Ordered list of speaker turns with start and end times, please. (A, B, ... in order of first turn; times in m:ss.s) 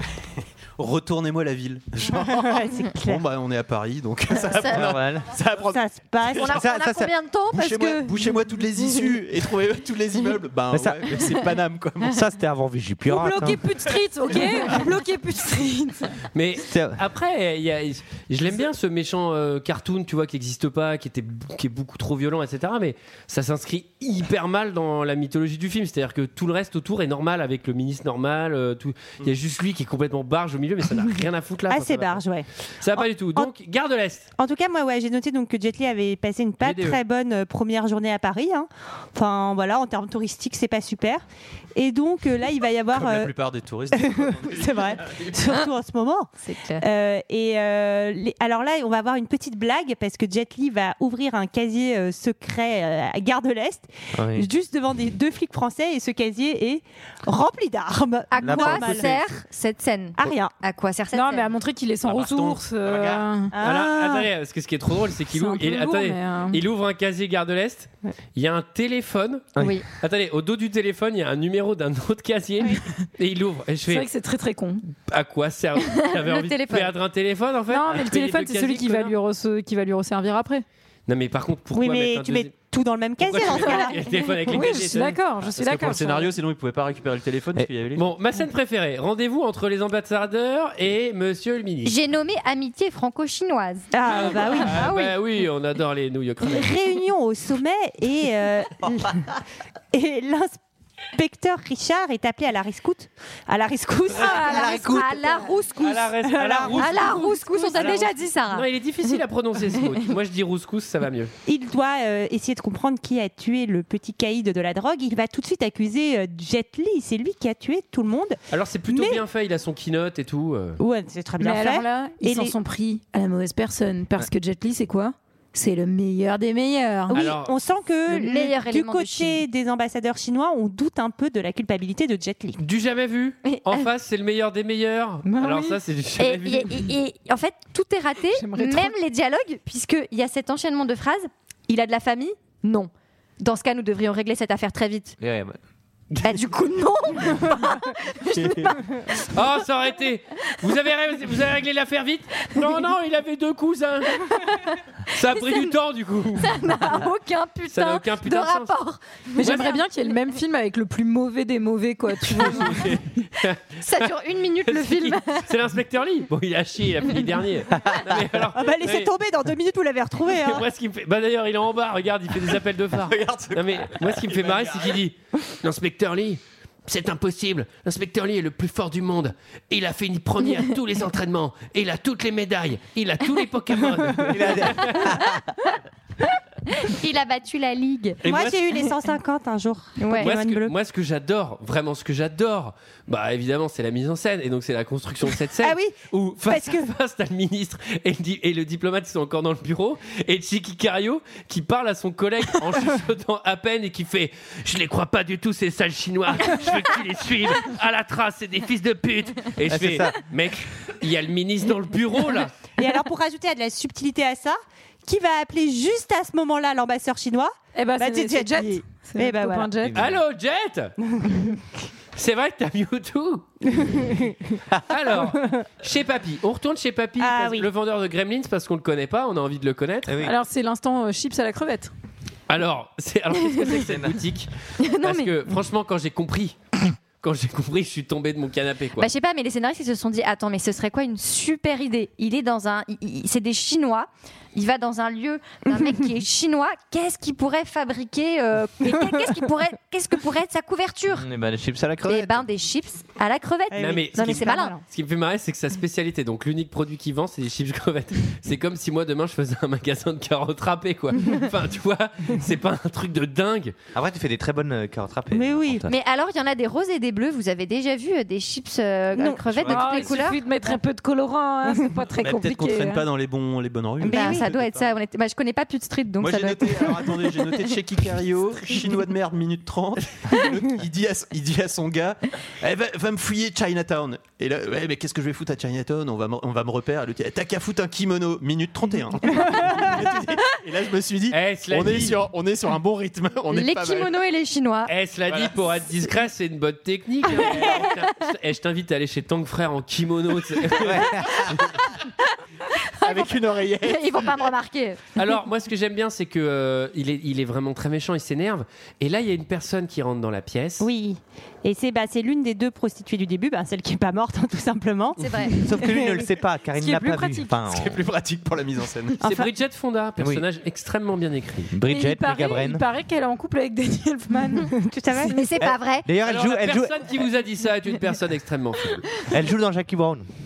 0:00.8-0:05.8 A
0:02.3-0:03.2 B
0:04.5-0:04.8 C
0:04.7-0:05.3 D
0:05.7-0:06.8 B
0:06.4-0:08.2 C
0:06.5-0:07.1 D
0:07.5-0:12.2 A
0:10.7-0:11.2 D
0:12.0-0:13.6 D
0:13.0-0:16.2 E
0:16.3-0:32.2 F
0:16.6-0:17.0 D
0:31.7-0:33.5 B
0:32.8-0:34.3 F
0:34.4-0:41.2 B
0:36.6-0:37.0 F
0:41.8-0:43.3 B
0:42.9-0:45.3 A
0:43.9-0:59.1 B
0:46.4-0:46.8 C
0:54.2-0:54.5 D
0:58.3-1:01.5 C
0:58.4-0:59.2 D
1:00.2-1:00.5 B
1:01.1-1:03.5 E
1:02.0-1:03.2 A
1:03.5-1:04.3 B
1:03.6-1:14.1 F
1:05.3-1:06.6 E
1:09.6-1:09.8 D
1:09.6-1:09.8 C
1:13.9-1:14.8 E
1:15.0-1:19.1 F
1:16.0-1:16.9 C
1:17.7-1:20.6 E
1:21.1-1:22.5 F
1:21.7-1:24.2 B
1:23.2-1:25.2 F
1:24.4-1:26.4 E
1:25.5-1:28.1 A
1:28.0-1:32.0 F
1:31.8-1:33.9 C
1:33.9-1:35.1 B
1:34.1-1:36.7 F
1:36.4-1:39.3 B
1:39.9-1:40.6 B
1:41.1-1:47.3 B
1:44.2-1:45.6 C
1:44.3-1:45.2 D
1:45.8-1:51.3 F
1:46.7-1:49.2 C
1:51.5-1:59.2 B
1:58.5-2:00.8 F
2:00.8-2:02.6 B
2:01.4-2:07.2 E
2:07.1-2:07.5 F
2:07.1-2:12.6 B
2:08.1-2:09.4 C
2:12.6-2:16.9 F
2:13.5-2:13.8 C
2:16.2-2:22.9 C
2:18.4-2:18.9 E
2:23.4-2:25.2 C
2:25.2-2:25.6 D
2:26.2-2:29.3 C
2:29.3-2:34.4 F
2:34.3-2:34.7 C
2:35.1-2:36.7 F
2:35.4-2:35.7 C
2:36.5-2:39.8 C
2:37.7-2:38.7 F
2:39.4-2:42.9 E
2:39.4-2:39.7 F
2:42.2-2:43.8 F
2:43.8-2:45.5 C
2:44.7-2:49.1 F
2:48.6-2:50.7 B
2:50.4-3:05.2 F
2:52.9-2:55.0 A
3:04.2-3:05.4 D
3:06.8-3:08.2 C
3:08.2-3:08.6 F
3:08.2-3:10.7 B
3:10.0-3:10.3 C
3:10.2-3:32.5 F
3:15.6-3:16.9 B
3:29.6-3:30.2 D
3:32.8-3:39.7 B
3:37.8-3:40.0 E
3:39.8-3:40.2 D
3:39.9-3:41.0 F
3:41.1-3:41.6 B
3:42.2-3:43.5 F
3:43.8-3:44.4 B
3:44.9-3:50.2 F
3:47.2-3:47.7 B
3:50.1-3:50.4 D
3:50.2-3:51.9 E
3:52.5-3:56.6 F
3:53.9-3:54.1 D
3:54.8-3:55.3 C
3:57.2-3:59.1 F
3:59.0-4:11.3 C
4:11.1-4:12.4 D
4:12.0-4:14.8 C
4:13.7-4:14.8 B
4:13.8-4:23.7 F
4:23.9-4:26.0 D
4:25.3-4:25.9 B
4:25.9-4:30.4 C
4:29.2-4:29.7 B
4:29.5-4:29.8 D
4:29.7-4:33.0 E
4:32.2-4:34.9 A
4:34.0-4:34.5 B
4:34.1-4:37.7 C
4:36.2-4:54.2 A
4:51.3-4:52.2 F
4:53.5-4:54.9 C
4:54.9-5:01.6 F
4:55.3-4:55.6 A
5:00.8-5:01.4 D
5:03.0-5:05.0 C
5:03.0-5:04.5 A
5:05.2-5:10.9 F
5:10.8-5:16.3 B
5:15.2-5:15.5 C
5:15.6-5:18.0 D
5:16.7-5:17.6 E
5:17.7-5:19.2 A
5:19.2-5:21.7 F
5:19.2-5:19.5 B
5:20.2-5:20.4 D
5:21.7-5:22.8 D
5:21.8-5:25.4 E
5:24.8-5:25.4 B
5:25.3-5:26.1 C
5:25.6-5:27.1 D
5:26.2-5:29.1 F
5:29.3-5:30.3 D